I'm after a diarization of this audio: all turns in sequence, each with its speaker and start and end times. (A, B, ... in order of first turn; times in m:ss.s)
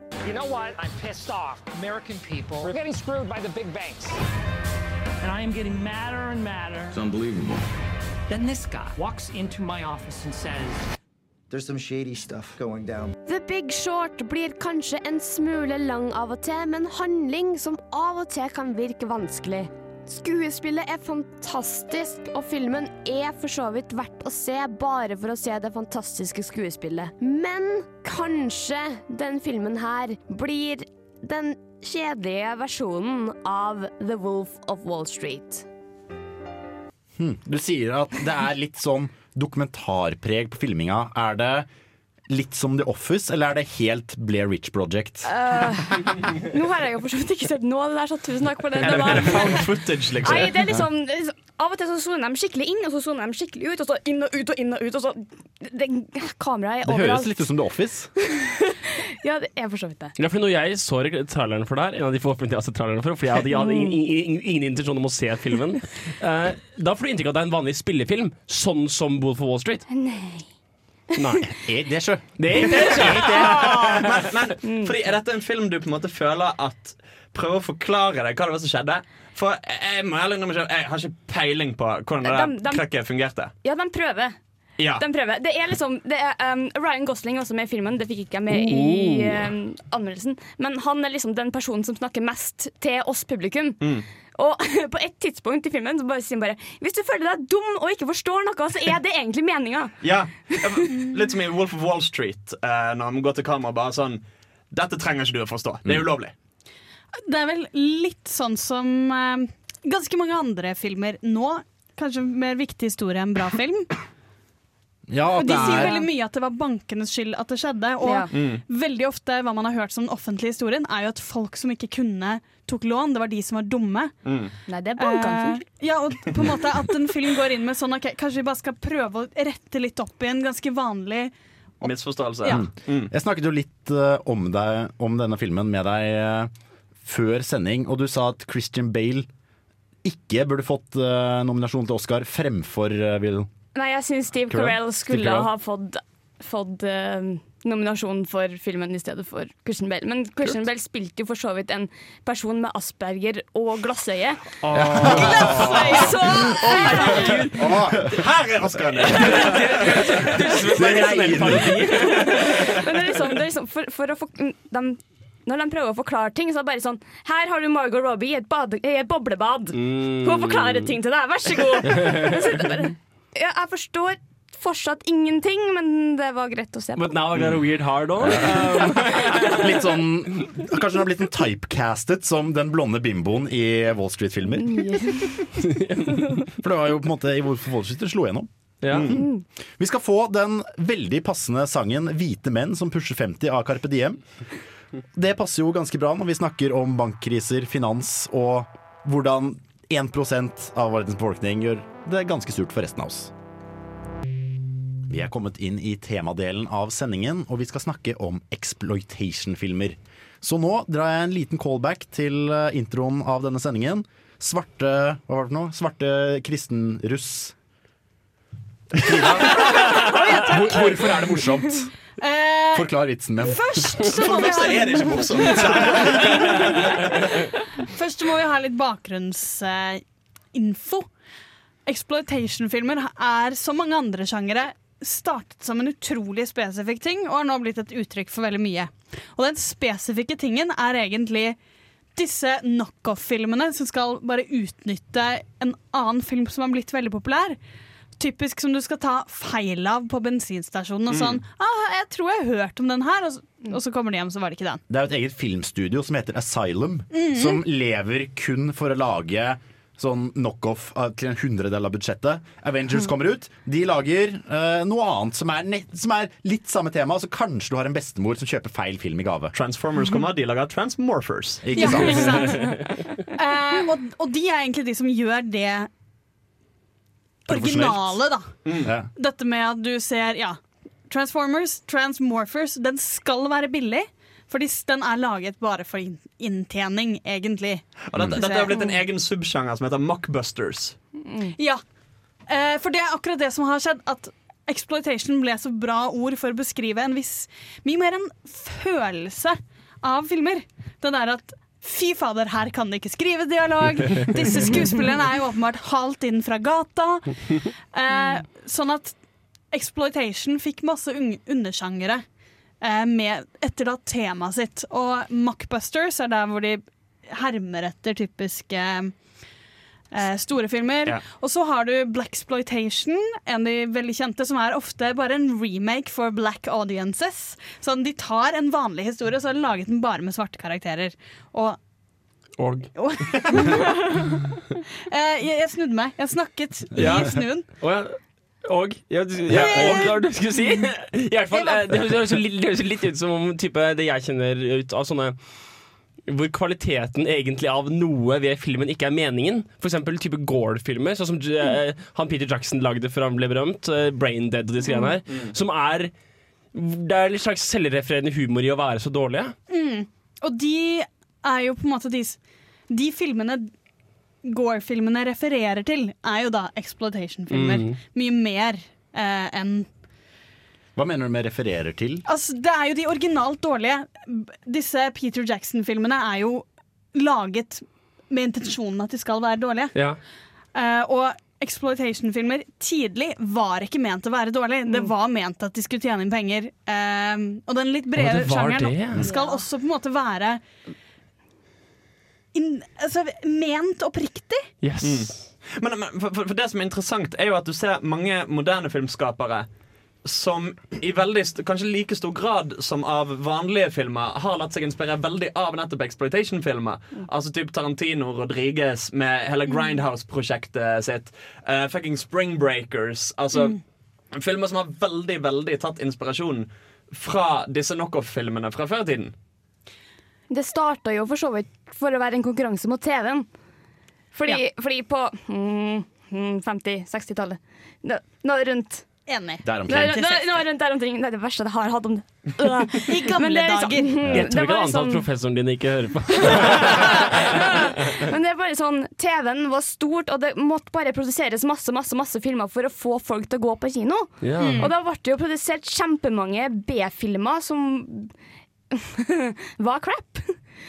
0:00.2-0:04.2 A
0:05.2-0:07.0 A
0:07.0-0:07.5 B
0:08.3-0:10.8 A
0:11.5-0:13.1 B
0:13.3-0:35.6 C
0:37.2-0:41.7 D
0:42.3-0:45.3 D
0:45.2-0:49.7 E
0:48.8-0:50.5 F
0:50.2-0:57.5 E
0:56.8-0:58.1 D
0:58.2-1:00.1 E
1:00.2-1:09.8 G
1:03.6-1:04.0 E
1:09.9-1:10.5 E
1:11.2-1:11.5 G
1:11.5-1:13.7 D
1:12.4-1:13.9 G
1:12.9-1:23.5 F
1:14.6-1:14.9 E
1:22.2-1:22.8 E
1:23.6-1:24.4 E
1:25.0-1:33.8 E
1:28.5-1:29.5 G
1:34.4-1:40.8 E
1:40.0-1:46.3 F
1:47.2-1:53.9 H
1:55.1-1:56.0 D
1:55.4-2:04.2 H
1:55.5-1:56.1 E
1:58.0-1:58.3 E
1:58.3-1:58.6 F
2:04.2-2:04.5 F
2:04.7-2:05.6 E
2:05.0-2:11.9 H
2:11.8-2:13.1 F
2:12.5-2:16.5 D
2:17.0-2:19.3 D
2:20.0-2:23.5 D
2:23.8-2:37.6 E
2:24.5-2:25.5 D
2:34.7-2:35.8 G
2:34.7-2:36.9 D
2:35.0-2:37.3 H
2:36.7-2:37.6 G
2:37.5-2:38.1 D
2:38.1-2:40.2 F
2:39.1-2:42.8 G
2:40.7-2:41.8 D
2:41.9-2:57.2 E
2:49.7-2:50.9 G
2:51.8-2:52.6 G
2:57.0-2:59.6 G
2:58.2-3:04.9 D
3:04.6-3:05.5 E
3:05.6-3:06.5 G
3:06.6-3:14.2 D
3:08.8-3:09.1 G
3:09.2-3:09.4 E
3:15.1-3:23.3 D
3:25.1-3:37.6 D
3:38.9-3:41.9 D
3:39.9-3:41.2 H
3:42.2-3:50.0 H
3:42.7-3:43.6 D
3:44.1-3:47.0 F
3:50.5-3:51.1 H
3:51.9-4:01.6 H
4:02.2-4:07.6 H
4:08.2-4:14.8 H
4:11.1-4:11.4 F
4:14.9-4:29.5 D
4:17.1-4:17.6 H
4:29.5-4:31.7 F
4:31.6-4:32.4 D
4:31.8-4:35.9 H
4:32.0-4:32.8 G
4:37.5-4:38.2 D
4:37.5-4:38.6 H
4:38.6-4:38.9 F
4:38.8-4:39.1 D
4:39.2-4:48.9 H
4:48.1-4:51.0 F
4:48.2-4:48.4 D
4:51.2-4:51.5 E
4:51.6-4:51.8 H
4:52.5-5:09.2 H
5:09.7-5:12.2 H
5:12.8-5:19.1 H
5:20.1-5:31.8 H
5:32.6-5:33.7 G
5:33.0-5:34.4 H
5:35.1-5:37.7 H
5:37.0-5:45.4 G
5:39.5-5:40.4 H
5:39.5-5:40.0 D
5:41.6-5:41.9 H
5:46.3-5:56.1 G
5:56.7-5:59.6 G
5:59.7-6:02.4 H
6:02.9-6:03.7 H
6:04.4-6:09.9 H
6:07.5-6:08.0 G
6:11.0-6:12.2 D
6:12.3-6:20.0 H
6:20.7-6:30.6 H
6:28.2-6:29.3 G
6:29.3-6:29.6 E
6:32.5-6:34.7 H
6:34.8-6:35.5 G
6:35.0-6:39.7 F
6:40.2-6:53.8 F
6:54.3-6:59.3 F
7:00.5-7:03.5 E
7:04.3-7:09.1 E
7:09.3-7:10.5 H
7:09.6-7:10.2 D
7:09.9-7:15.2 E
7:13.0-7:14.2 H
7:14.3-7:18.2 G
7:16.4-7:17.5 E
7:18.2-7:28.3 E
7:24.4-7:24.9 G
7:24.6-7:24.9 H
7:28.9-7:30.6 E